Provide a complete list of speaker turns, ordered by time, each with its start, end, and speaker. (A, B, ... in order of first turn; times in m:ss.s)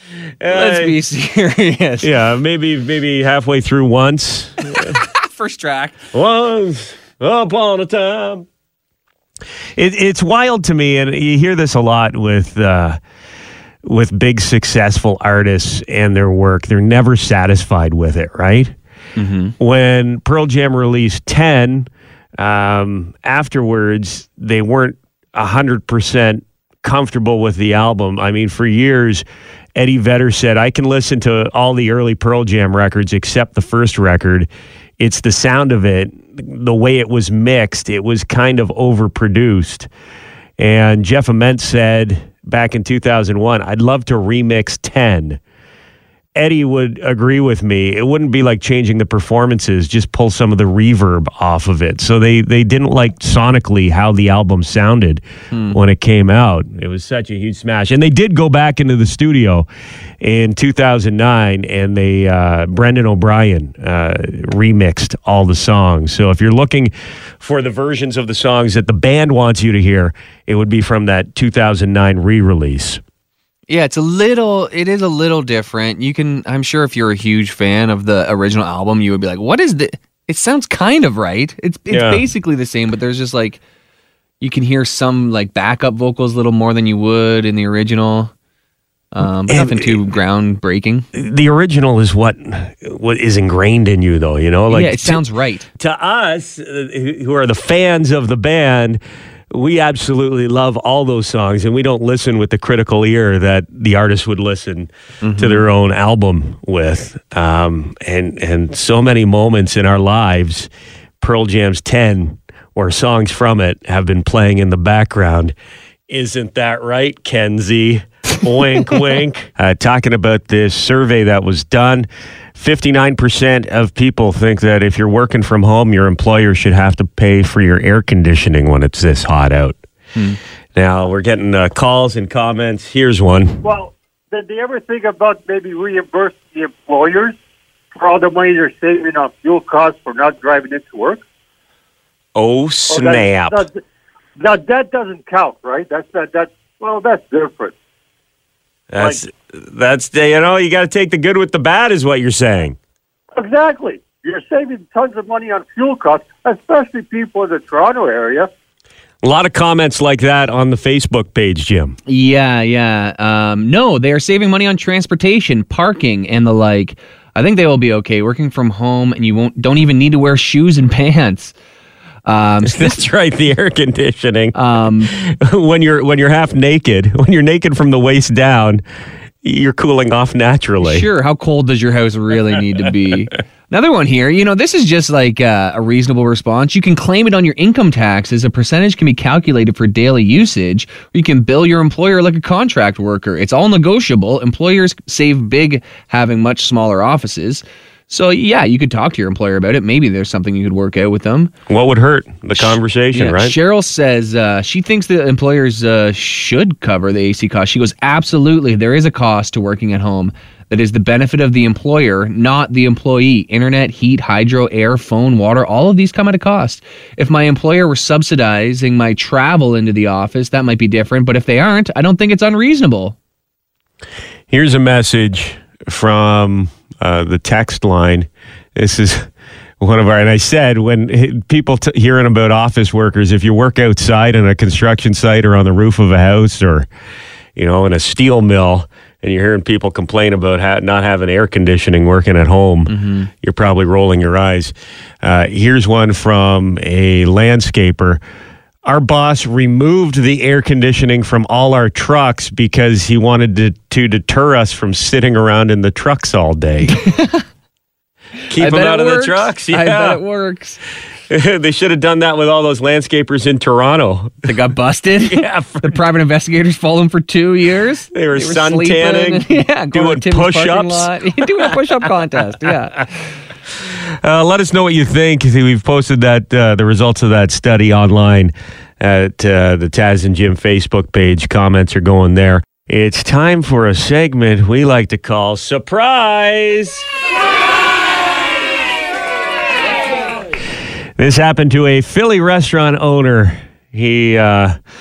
0:00.4-0:01.0 A
0:00.5-0:02.1 B
0:02.0-0:05.0 A
0:04.6-0:06.0 B
0:06.1-0:08.4 A
0:09.8-0:13.0 A
0:13.8-0:18.7 A
0:19.2-0:19.5 B
0:19.6-0:29.2 A
0:29.8-0:34.5 A
0:35.0-0:39.9 A
0:40.6-0:45.4 A
0:46.4-0:59.7 A
0:55.5-0:55.8 B
1:00.2-1:13.0 A
1:13.7-1:23.6 B
1:21.9-1:22.2 A
1:24.4-1:28.3 B
1:29.1-1:31.0 B
1:29.5-1:30.0 A
1:31.1-1:35.2 A
1:34.7-1:35.7 B
1:35.8-1:39.0 A
1:39.5-1:50.7 A
1:45.2-1:45.6 B
1:51.2-1:55.5 A
1:56.1-2:09.8 A
2:10.8-2:13.7 A
2:13.6-2:17.3 C
2:18.0-2:21.2 C
2:22.4-2:23.6 A
2:22.9-2:23.7 C
2:24.4-2:27.7 C
2:28.9-2:32.8 A
2:33.3-2:38.5 C
2:39.2-2:42.0 A
2:42.0-2:51.5 B
2:52.2-2:53.0 B
2:52.6-2:58.8 A
2:54.5-2:55.1 B
2:59.4-3:01.1 A
3:00.8-3:21.5 B
3:21.7-3:23.6 A
3:22.5-3:43.2 B
3:44.5-3:49.2 A
3:49.8-3:56.9 A
3:57.6-4:08.2 A
4:02.9-4:03.3 B
4:08.8-4:17.0 A
4:17.0-4:17.4 B
4:18.5-4:20.2 A
4:18.5-4:20.8 B
4:21.3-4:24.5 A
4:24.4-4:33.1 B
4:25.2-4:26.0 A
4:28.1-4:31.1 A
4:34.2-4:47.0 A
4:51.2-4:54.7 A